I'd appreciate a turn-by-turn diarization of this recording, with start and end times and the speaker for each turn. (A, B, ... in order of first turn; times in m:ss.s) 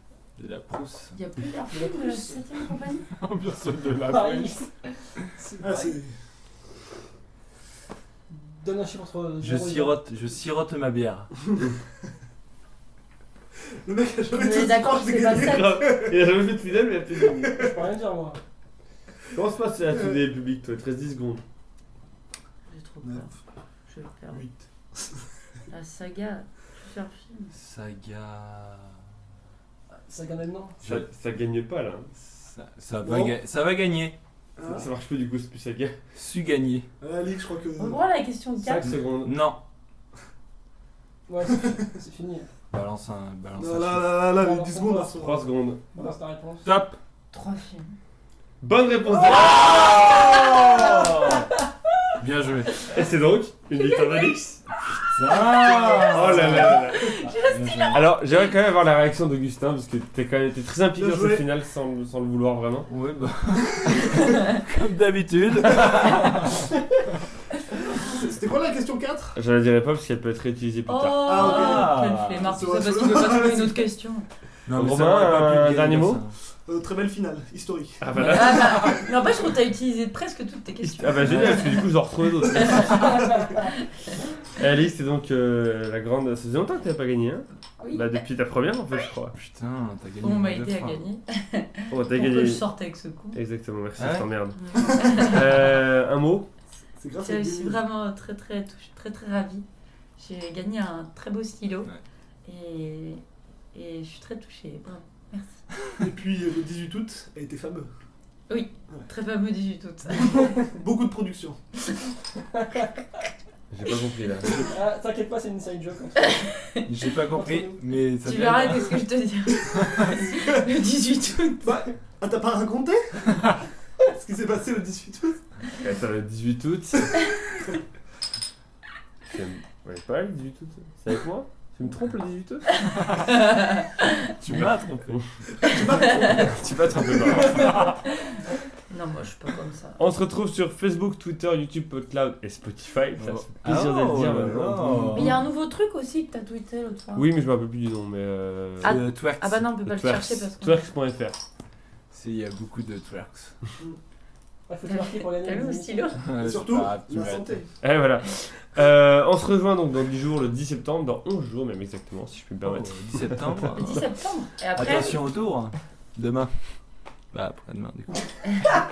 0:00.4-0:01.2 A
0:01.1-0:03.1 B
0:01.7-0:02.4 C
0:03.1-0:04.6 A
0:04.0-0:04.7 C
0:05.4-0:05.9 C
0:05.6-0:06.1 D
0:08.3-0:10.0 C
0:09.4-0:11.3 A
0:13.8-0:16.2 D
0:14.3-0:15.8 B
0:15.3-0:17.7 E
0:17.2-0:17.7 D
0:17.5-0:18.4 C
0:19.3-0:21.4 E
0:19.9-0:20.2 D
0:22.7-0:23.3 B
0:23.0-0:23.3 D
0:23.9-0:24.4 B
0:25.7-0:27.5 B
0:27.5-0:29.0 A
0:29.9-0:30.8 C
0:30.8-0:32.1 E
0:32.2-0:34.2 A
0:33.0-0:33.3 D
0:34.6-0:34.9 D
0:34.7-0:36.0 E
0:36.1-0:36.9 A
0:37.0-0:38.0 D
0:37.8-0:38.9 B
0:38.6-0:39.4 E
0:38.8-0:39.6 A
0:41.3-0:42.5 C
0:42.7-0:44.3 A
0:43.6-0:46.1 D
0:44.3-0:45.2 C
0:45.2-0:45.8 E
0:45.9-0:46.7 C
0:46.6-0:47.0 E
0:47.3-0:47.9 B
0:48.6-0:51.0 E
0:49.2-0:51.3 B
0:50.5-0:51.5 A
0:52.2-0:52.7 A
0:52.9-0:54.6 E
0:53.7-0:54.4 B
0:55.0-0:58.0 A
0:55.3-0:58.0 B
0:55.9-0:57.2 E
0:57.9-1:02.9 E
1:01.0-1:01.4 D
1:02.9-1:06.6 A
1:07.8-1:09.4 D
1:09.3-1:11.4 E
1:10.9-1:14.2 B
1:11.2-1:13.9 D
1:11.3-1:12.5 A
1:14.7-1:16.3 A
1:14.7-1:16.2 E
1:16.6-1:18.0 D
1:18.0-1:19.0 E
1:18.2-1:21.8 B
1:20.8-1:23.3 E
1:21.2-1:21.7 A
1:22.4-1:23.8 B
1:24.6-1:29.4 E
1:27.8-1:28.2 B
1:29.3-1:31.0 A
1:30.2-1:33.4 B
1:31.9-1:32.6 E
1:33.3-1:36.5 E
1:34.0-1:34.3 A
1:34.6-1:35.4 B
1:37.0-1:37.8 D
1:37.2-1:39.6 B
1:40.2-1:41.9 B
1:42.4-1:43.2 B
1:43.7-1:45.6 B
1:46.0-1:47.9 D
1:48.5-1:50.6 B
1:50.1-1:51.6 D
1:53.7-1:54.6 E
1:54.6-1:56.5 C
1:56.2-1:56.8 B
1:56.8-1:59.0 A
1:57.3-1:57.8 C
1:58.2-2:01.8 B
2:01.6-2:03.6 D
2:04.1-2:05.4 D
2:05.8-2:07.2 E
2:09.2-2:12.9 E
2:12.9-2:14.1 B
2:14.4-2:15.2 A
2:14.5-2:15.3 E
2:15.6-2:16.6 D
2:15.8-2:16.2 B
2:16.0-2:17.9 E
2:17.7-2:18.3 B
2:18.9-2:20.0 B
2:20.0-2:25.3 E
2:23.2-2:25.4 A
2:25.1-2:27.3 B
2:27.1-2:29.0 E
2:28.8-2:30.9 B
2:28.8-2:29.7 A
2:29.9-2:31.4 E
2:32.1-2:33.5 A
2:34.7-2:36.2 C
2:34.9-2:36.3 B
2:36.2-2:37.6 A
2:36.4-2:37.7 D
2:37.8-2:44.0 E
2:42.6-2:44.0 A
2:43.8-2:45.2 B
2:44.7-2:46.6 A
2:47.3-2:48.6 A